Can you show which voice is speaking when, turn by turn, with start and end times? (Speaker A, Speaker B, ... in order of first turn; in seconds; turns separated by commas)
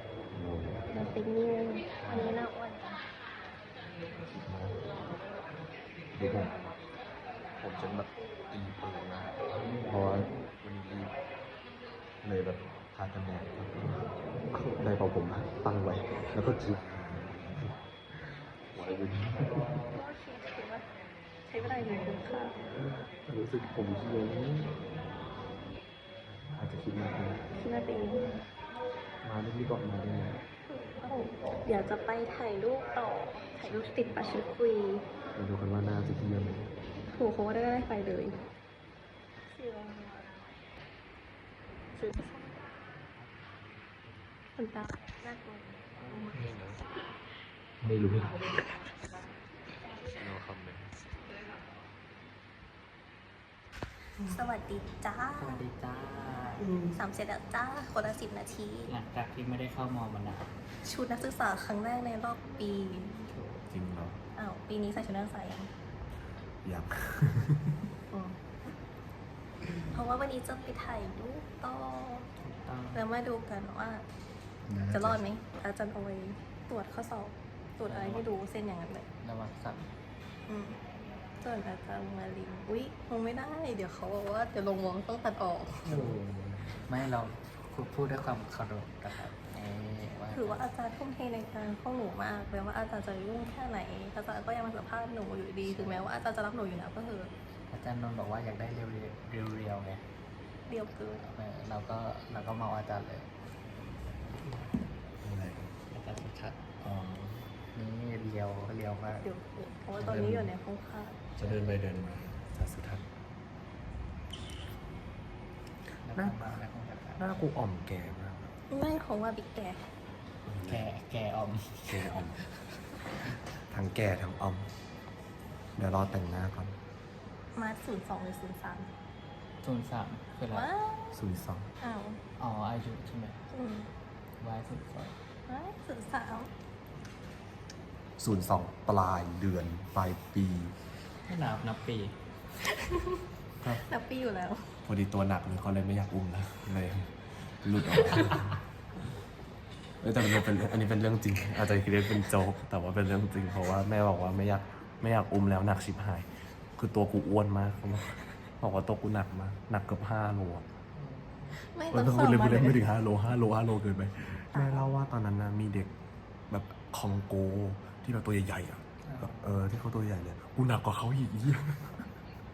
Speaker A: 0.3-0.9, Speaker B: 0.9-3.0, Speaker A: 2.0-2.4, Speaker A: 4.3-4.9, Speaker A: 6.2-6.8, Speaker A: 7.6-11.1, Speaker A: 12.2-17.8, Speaker A: 18.7-19.9, Speaker B: 19.9-20.9, Speaker B: 21.5-22.6, Speaker A: 22.7-24.8, Speaker A: 26.6-27.5, Speaker B: 27.5-28.3, Speaker A: 29.2-30.4, Speaker B: 30.7-35.1, Speaker A: 35.4-36.8, Speaker B: 37.1-38.5, Speaker B: 39.5-40.6, Speaker B: 42.0-42.7, Speaker B: 44.6-46.5, Speaker A: 46.3-46.8, Speaker A: 47.8-48.4, Speaker A: 50.0-50.9, Speaker B: 54.2-55.6, Speaker C: 55.4-56.7, Speaker B: 56.6-58.9, Speaker C: 58.9-60.5, Speaker B: 60.8-63.1, Speaker C: 63.3-63.6, Speaker A: 63.7-64.2, Speaker B: 64.4-65.7, Speaker A: 66.6-67.6, Speaker B: 68.1-68.4, Speaker B: 69.9-72.3, Speaker C: 72.4-73.0, Speaker B: 72.9-74.1, Speaker A: 74.7-75.2, Speaker B: 74.9-79.1, Speaker C: 77.9-78.3, Speaker C: 79.2-79.9, Speaker B: 80.5-80.8, Speaker B: 81.4-86.0, Speaker C: 85.8-90.7, Speaker B: 90.3-97.3, Speaker C: 95.7-96.1, Speaker C: 97.7-100.0, Speaker B: 100.7-101.3, Speaker C: 100.7-103.3, Speaker A: 105.2-105.7, Speaker C: 105.9-109.2, Speaker B: 109.2-111.2, Speaker A: 110.0-110.5, Speaker A: 111.4-113.0, Speaker C: 116.0-117.3, Speaker A: 117.2-118.5, Speaker B: 118.7-119.9, Speaker A: 120.5-120.8, Speaker C: 120.6-122.7, Speaker A: 121.9-122.4, Speaker A: 123.7-124.7, Speaker A: 125.8-126.8, Speaker B: 127.5-128.9, Speaker C: 129.6-130.7, Speaker B: 130.5-131.2, Speaker A: 131.2-131.7, Speaker B: 131.8-132.2, Speaker C: 132.4-133.4, Speaker B: 133.5-133.9, Speaker C: 134.4-135.2, Speaker B: 135.5-136.5, Speaker A: 138.2-140.8, Speaker C: 141.3-142.2, Speaker B: 143.8-144.8, Speaker A: 144.9-148.5, Speaker A: 150.0-160.7, Speaker C: 161.0-161.6, Speaker B: 161.5-163.0, Speaker A: 161.9-165.9, Speaker B: 164.5-164.9, Speaker A: 166.5-172.1, Speaker C: 169.0-169.6